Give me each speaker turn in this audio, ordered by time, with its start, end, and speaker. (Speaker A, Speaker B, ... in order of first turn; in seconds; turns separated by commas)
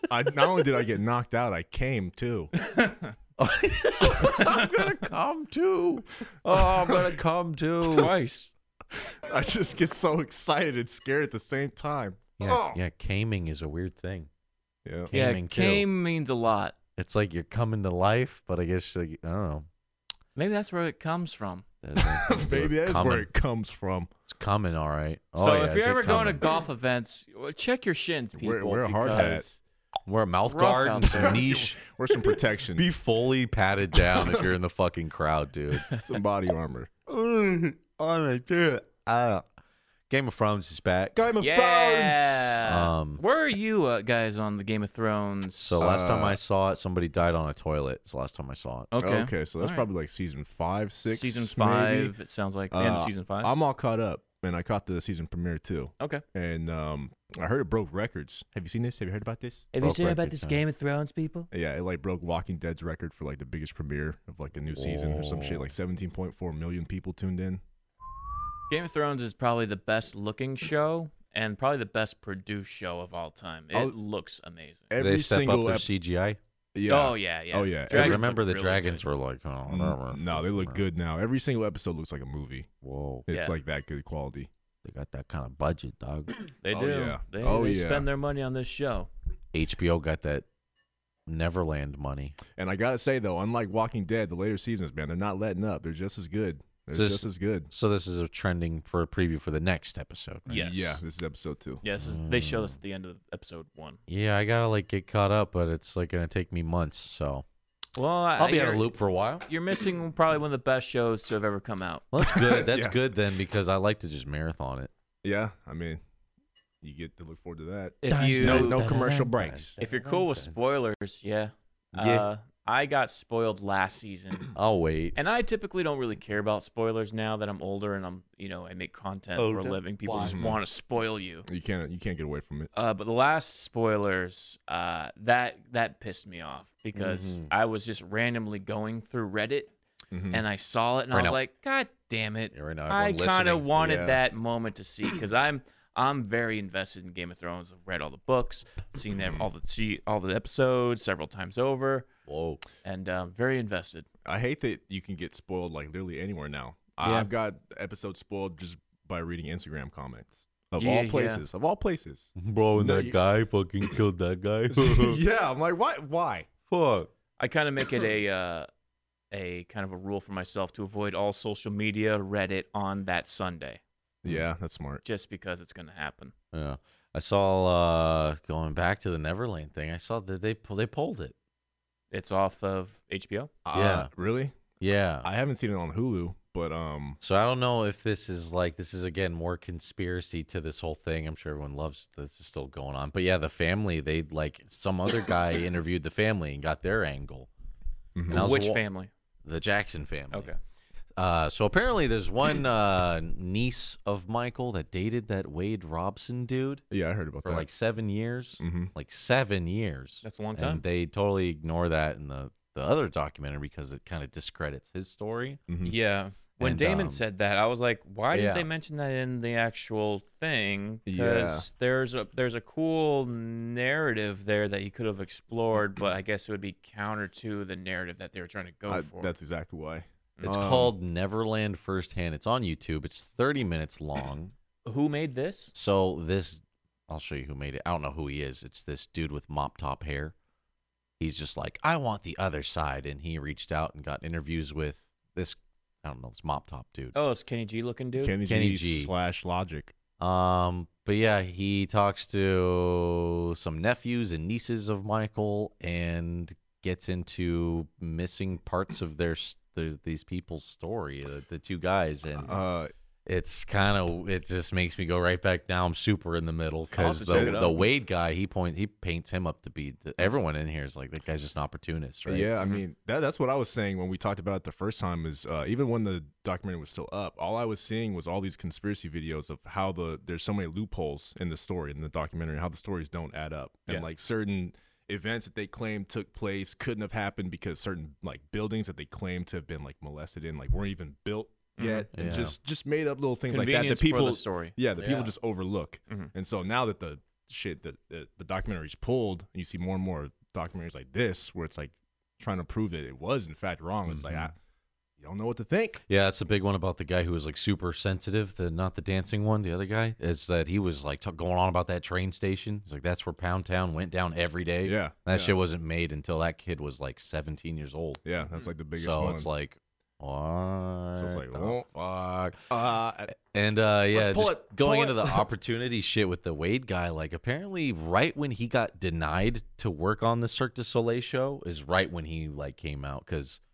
Speaker A: 0.1-2.5, Speaker B: 2.6-3.1, Speaker C: 3.4-8.1, Speaker B: 4.1-4.8, Speaker B: 6.5-7.0, Speaker A: 6.8-7.1, Speaker B: 7.9-8.5, Speaker A: 9.3-12.8, Speaker C: 12.4-14.3, Speaker A: 14.8-15.1, Speaker C: 15.1-15.9, Speaker B: 15.1-16.8, Speaker C: 17.0-19.7, Speaker B: 20.4-21.6, Speaker C: 21.8-23.3, Speaker A: 22.0-24.1, Speaker C: 24.3-26.4, Speaker B: 25.4-29.6, Speaker A: 28.4-29.5, Speaker C: 30.1-31.8, Speaker B: 30.5-31.6, Speaker A: 31.2-32.9, Speaker C: 32.8-35.9, Speaker A: 34.0-34.5, Speaker A: 35.9-36.9, Speaker C: 37.1-39.5, Speaker C: 40.1-41.2, Speaker A: 41.1-42.7, Speaker B: 41.4-45.9, Speaker C: 42.6-43.2, Speaker C: 45.6-48.9, Speaker A: 45.8-46.4, Speaker B: 48.9-49.9, Speaker A: 49.0-52.1, Speaker B: 51.1-53.5, Speaker A: 52.7-59.6, Speaker B: 59.7-61.5, Speaker C: 59.8-60.6, Speaker A: 61.5-67.6, Speaker C: 64.7-65.7, Speaker B: 68.7-74.9, Speaker A: 74.9-75.9, Speaker C: 75.0-76.4, Speaker A: 76.7-78.2, Speaker B: 76.9-79.0, Speaker C: 77.9-80.8, Speaker A: 79.7-82.7, Speaker C: 82.8-83.2, Speaker A: 83.3-84.5, Speaker B: 83.3-83.6, Speaker C: 84.8-86.3, Speaker B: 86.6-89.1, Speaker A: 86.7-88.1, Speaker C: 89.5-90.5, Speaker C: 91.3-92.4, Speaker A: 92.6-97.7, Speaker C: 96.9-100.6, Speaker B: 100.5-101.0, Speaker A: 100.5-101.8, Speaker B: 101.8-104.0, Speaker C: 102.0-102.8, Speaker C: 104.1-107.5, Speaker B: 108.0-108.9, Speaker C: 108.4-109.5, Speaker B: 109.5-112.1, Speaker C: 112.1-114.9, Speaker A: 112.3-113.0, Speaker A: 115.2-116.0, Speaker A: 116.8-119.8, Speaker B: 118.0-118.8, Speaker C: 118.1-120.5, Speaker B: 119.8-124.6, Speaker C: 121.9-122.3, Speaker C: 124.5-125.2, Speaker B: 125.1-131.5, Speaker C: 129.4-130.4, Speaker A: 130.2-130.6, Speaker A: 131.5-132.7, Speaker B: 132.7-139.8, Speaker C: 136.9-137.5, Speaker A: 140.1-140.4, Speaker B: 140.3-152.1, Speaker C: 141.1-141.4, Speaker C: 142.5-143.7, Speaker A: 143.8-144.2, Speaker A: 149.2-149.4, Speaker C: 152.3-152.6, Speaker B: 152.8-154.1, Speaker A: 154.2-163.2, Speaker B: 157.0-157.3, Speaker B: 160.8-161.4, Speaker C: 162.4-165.2, Speaker A: 164.7-166.5, Speaker C: 166.7-167.1, Speaker B: 167.4-168.7, Speaker B: 169.3-173.8, Speaker A: 174.2-175.0, Speaker B: 175.0-176.3, Speaker C: 176.5-181.3, Speaker B: 182.1-183.5, Speaker A: 183.6-184.6, Speaker C: 183.7-184.1, Speaker C: 184.8-185.3, Speaker A: 185.2-187.2, Speaker C: 187.2-197.5, Speaker A: 198.1-198.6, Speaker C: 198.3-198.8, Speaker B: 198.3-199.1, Speaker C: 199.4-200.5, Speaker B: 200.3-200.6, Speaker C: 201.2-206.8, Speaker A: 206.9-207.7, Speaker C: 207.4-215.6, Speaker A: 208.6-208.9, Speaker B: 210.2-210.8, Speaker A: 215.7-216.0, Speaker B: 215.8-229.3, Speaker C: 216.6-217.2, Speaker C: 218.3-218.7, Speaker A: 221.1-221.7, Speaker A: 228.9-230.9, Speaker C: 230.4-234.5, Speaker B: 234.9-235.7, Speaker C: 235.7-240.3, Speaker C: 241.2-247.2, Speaker B: 247.1-248.4, Speaker A: 248.2-249.9, Speaker C: 248.5-249.1, Speaker C: 250.2-262.6, Speaker A: 262.4-262.9, Speaker C: 263.3-272.5, Speaker B: 266.9-267.9, Speaker A: 267.3-267.8, Speaker A: 272.3-304.6, Speaker B: 291.8-292.1, Speaker C: 292.1-292.6, Speaker B: 293.5-295.3, Speaker C: 304.1-304.5, Speaker A: 305.2-306.0, Speaker C: 306.1-318.2, Speaker A: 314.9-315.6, Speaker A: 318.2-319.5, Speaker C: 318.9-322.7, Speaker A: 321.1-321.9, Speaker A: 322.7-323.3, Speaker C: 323.4-333.6, Speaker A: 324.1-325.5